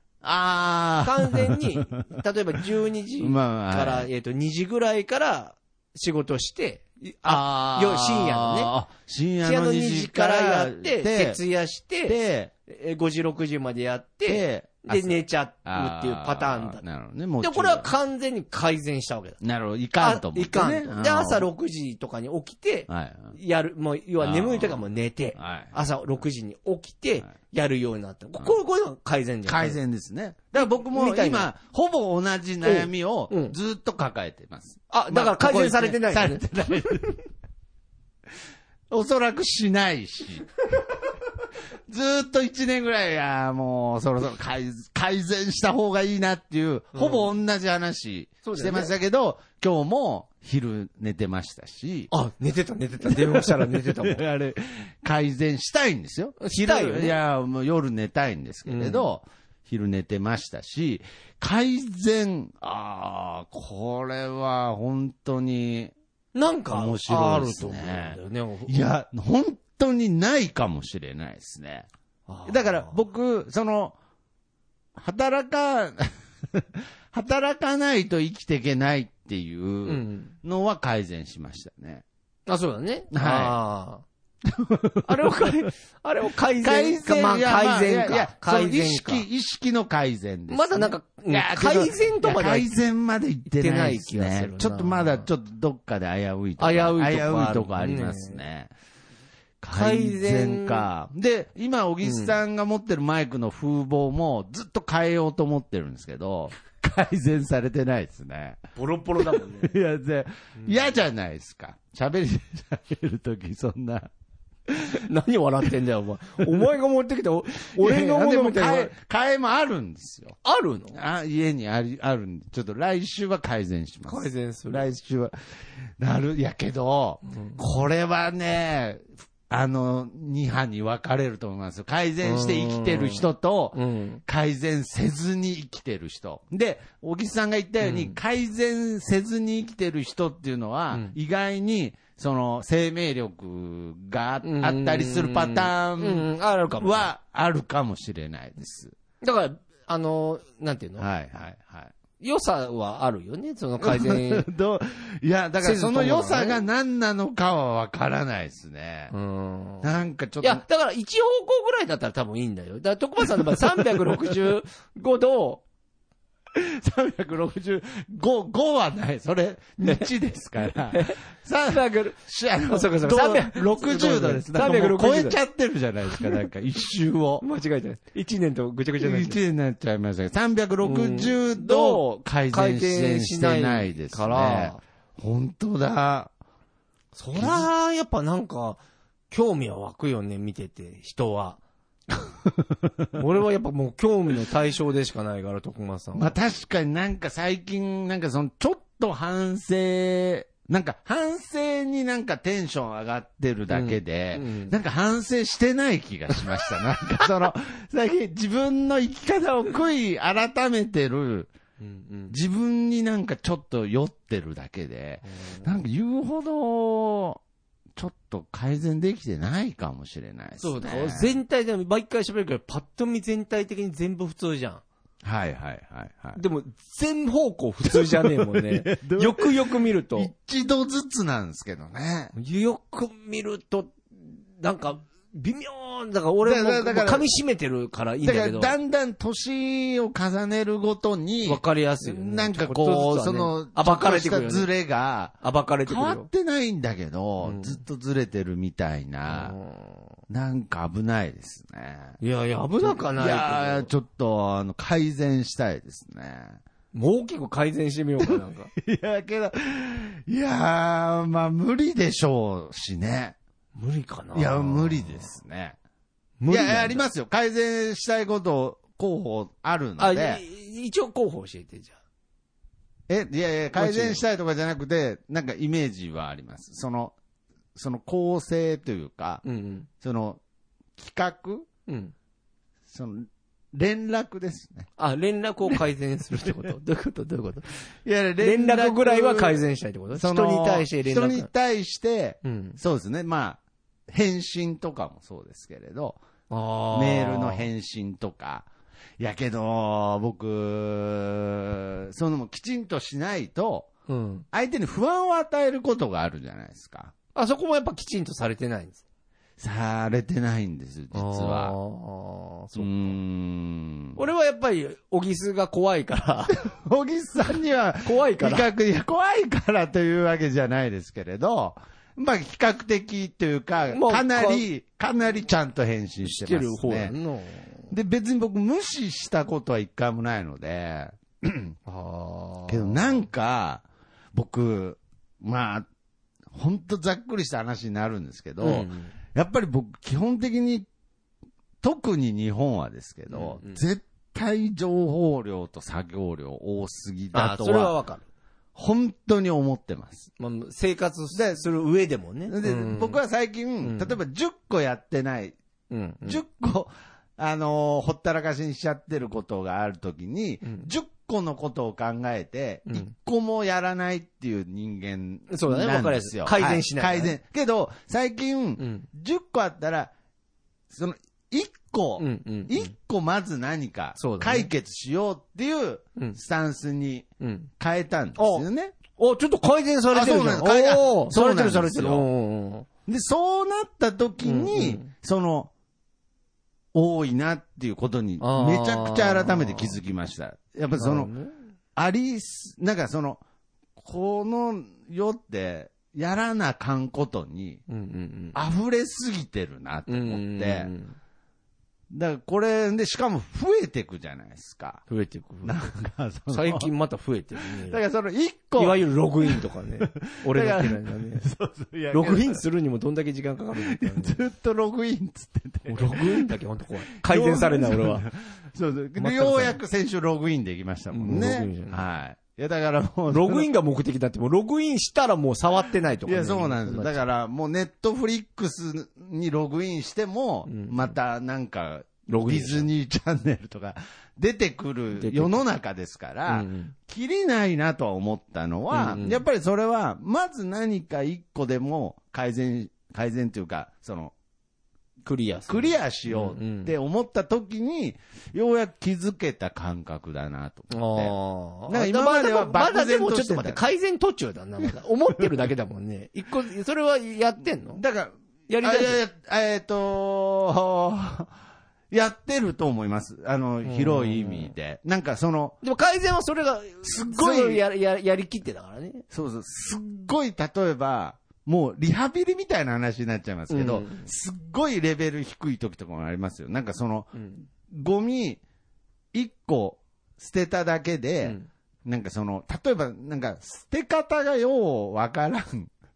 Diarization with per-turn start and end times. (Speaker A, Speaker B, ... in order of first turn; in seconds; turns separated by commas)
Speaker A: 0.2-2.0, Speaker B: 1.0-8.7, Speaker A: 3.2-4.1, Speaker A: 7.2-11.4, Speaker B: 9.4-16.8, Speaker A: 12.1-12.5, Speaker A: 14.2-17.9, Speaker B: 17.4-19.4, Speaker A: 19.4-21.4, Speaker B: 20.0-29.8, Speaker A: 22.9-23.3, Speaker A: 24.2-24.8, Speaker A: 25.4-25.8, Speaker A: 29.4-37.2, Speaker B: 30.6-31.5, Speaker B: 32.6-33.5, Speaker B: 34.9-36.4, Speaker A: 38.9-40.5, Speaker A: 41.9-52.1, Speaker B: 46.9-47.2, Speaker B: 48.4-48.9, Speaker B: 52.1-54.2, Speaker A: 53.0-65.9, Speaker B: 56.4-57.1, Speaker B: 58.6-59.1, Speaker B: 66.3-68.8, Speaker A: 66.7-71.9, Speaker B: 72.3-73.0, Speaker A: 72.5-74.0, Speaker A: 75.0-82.0, Speaker B: 79.8-80.3, Speaker B: 82.5-84.0, Speaker A: 83.1-83.6, Speaker A: 84.4-85.7, Speaker B: 85.0-89.2, Speaker A: 86.6-98.7, Speaker B: 90.5-92.7, Speaker B: 93.5-95.3, Speaker B: 96.6-98.4, Speaker A: 99.6-114.1, Speaker B: 99.7-100.9, Speaker B: 102.0-102.4, Speaker B: 108.8-109.8, Speaker B: 110.6-111.0, Speaker A: 114.7-115.0, Speaker B: 115.0-118.9, Speaker A: 117.7-120.4, Speaker B: 120.4-120.9, Speaker A: 120.9-125.3, Speaker B: 124.1-124.8, Speaker A: 126.0-146.3, Speaker B: 127.3-127.6, Speaker B: 132.2-134.2, Speaker B: 137.8-138.2, Speaker B: 144.4-147.1, Speaker A: 146.8-148.9, Speaker B: 149.2-151.1, Speaker A: 151.0-151.9, Speaker B: 152.2-154.4, Speaker A: 153.8-159.1, Speaker B: 155.6-156.6, Speaker B: 159.1-159.9, Speaker A: 159.8-160.6, Speaker B: 160.4-165.6, Speaker A: 163.2-164.4, Speaker A: 166.5-177.4, Speaker B: 169.8-170.1, Speaker B: 170.9-172.2, Speaker B: 172.7-175.4, Speaker B: 176.1-176.4, Speaker B: 177.4-179.4, Speaker A: 179.0-186.3, Speaker B: 180.8-184.8, Speaker B: 187.1-191.6, Speaker A: 187.3-187.7, Speaker B: 193.1-196.3, Speaker A: 196.2-211.5, Speaker B: 203.7-204.7, Speaker B: 211.8-212.4, Speaker A: 212.3-217.4, Speaker B: 215.2-215.8, Speaker A: 217.9-221.3, Speaker B: 220.6-224.8, Speaker A: 225.2-226.4, Speaker B: 226.3-230.3, Speaker A: 227.9-232.3, Speaker B: 232.3-238.7, Speaker A: 236.4-237.3, Speaker A: 238.2-249.6, Speaker B: 241.4-244.7, Speaker B: 245.4-246.3, Speaker B: 247.4-247.8, Speaker B: 249.3-250.0, Speaker A: 250.3-252.2, Speaker B: 252.2-253.9, Speaker A: 252.8-256.6, Speaker B: 256.9-258.7, Speaker A: 258.2-263.4, Speaker B: 263.7-265.3, Speaker A: 264.3-265.8, Speaker B: 266.4-267.1, Speaker A: 266.5-270.4, Speaker B: 270.0-271.9, Speaker A: 273.1-277.1, Speaker B: 273.7-274.2, Speaker A: 277.7-279.4, Speaker B: 279.4-279.9, Speaker A: 280.0-280.4, Speaker A: 281.0-281.7, Speaker B: 281.9-282.1, Speaker A: 282.9-284.9, Speaker B: 285.0-287.7, Speaker A: 288.0-296.2, Speaker B: 288.4-291.5, Speaker B: 292.4-292.8, Speaker B: 296.5-297.7, Speaker A: 296.9-298.7, Speaker A: 299.2-303.9, Speaker B: 304.1-304.4, Speaker A: 304.5-307.1, Speaker B: 307.3-309.0, Speaker A: 309.6-311.8, Speaker B: 311.1-313.1, Speaker A: 312.7-314.2, Speaker B: 314.1-316.6, Speaker A: 316.5-327.1, Speaker B: 318.0-318.7, Speaker B: 323.9-324.6, Speaker B: 326.2-327.9, Speaker A: 327.9-331.8, Speaker B: 331.9-333.2, Speaker A: 332.7-335.9, Speaker A: 336.5-340.9, Speaker B: 338.6-339.1, Speaker A: 341.8-347.9, Speaker B: 343.3-343.8, Speaker B: 347.3-348.2, Speaker A: 348.7-350.3, Speaker B: 350.4-353.2, Speaker A: 351.3-351.6, Speaker A: 352.5-355.6, Speaker B: 353.8-354.2, Speaker B: 355.9-356.4, Speaker A: 356.2-370.1, Speaker B: 362.9-363.1, Speaker B: 365.5-367.3, Speaker B: 368.8-369.1, Speaker A: 370.9-377.3, Speaker B: 372.2-372.9, Speaker B: 374.2-374.7, Speaker B: 377.4-377.7, Speaker A: 377.8-379.0, Speaker B: 378.4-382.9, Speaker A: 380.1-382.3, Speaker A: 383.1-385.7, Speaker B: 384.4-385.1, Speaker A: 386.9-391.3, Speaker B: 388.4-390.0, Speaker B: 390.9-391.6, Speaker A: 391.9-393.4, Speaker A: 394.0-397.8, Speaker B: 397.9-398.6, Speaker A: 398.5-400.9, Speaker B: 400.1-401.2, Speaker A: 402.1-405.0, Speaker B: 405.1-405.8, Speaker A: 405.6-406.9, Speaker B: 406.5-408.0, Speaker A: 407.7-412.6, Speaker B: 408.8-411.5, Speaker B: 412.1-414.4, Speaker A: 413.8-416.6, Speaker B: 415.9-418.2, Speaker A: 417.2-423.7, Speaker B: 419.2-419.8, Speaker B: 421.1-422.0, Speaker B: 423.3-427.2, Speaker A: 426.2-444.3, Speaker B: 430.6-431.1, Speaker B: 432.3-432.9, Speaker B: 435.1-435.6, Speaker B: 436.5-436.9, Speaker B: 438.9-439.4, Speaker B: 445.2-446.9, Speaker A: 445.7-451.4, Speaker B: 450.9-458.0, Speaker A: 451.9-453.8, Speaker A: 457.9-461.5, Speaker B: 458.7-459.2, Speaker A: 462.1-465.8, Speaker B: 463.8-464.7, Speaker B: 465.8-469.2, Speaker A: 467.0-467.8, Speaker A: 469.3-477.3, Speaker B: 473.7-474.3, Speaker B: 477.4-477.7, Speaker A: 477.9-478.6, Speaker A: 479.3-485.9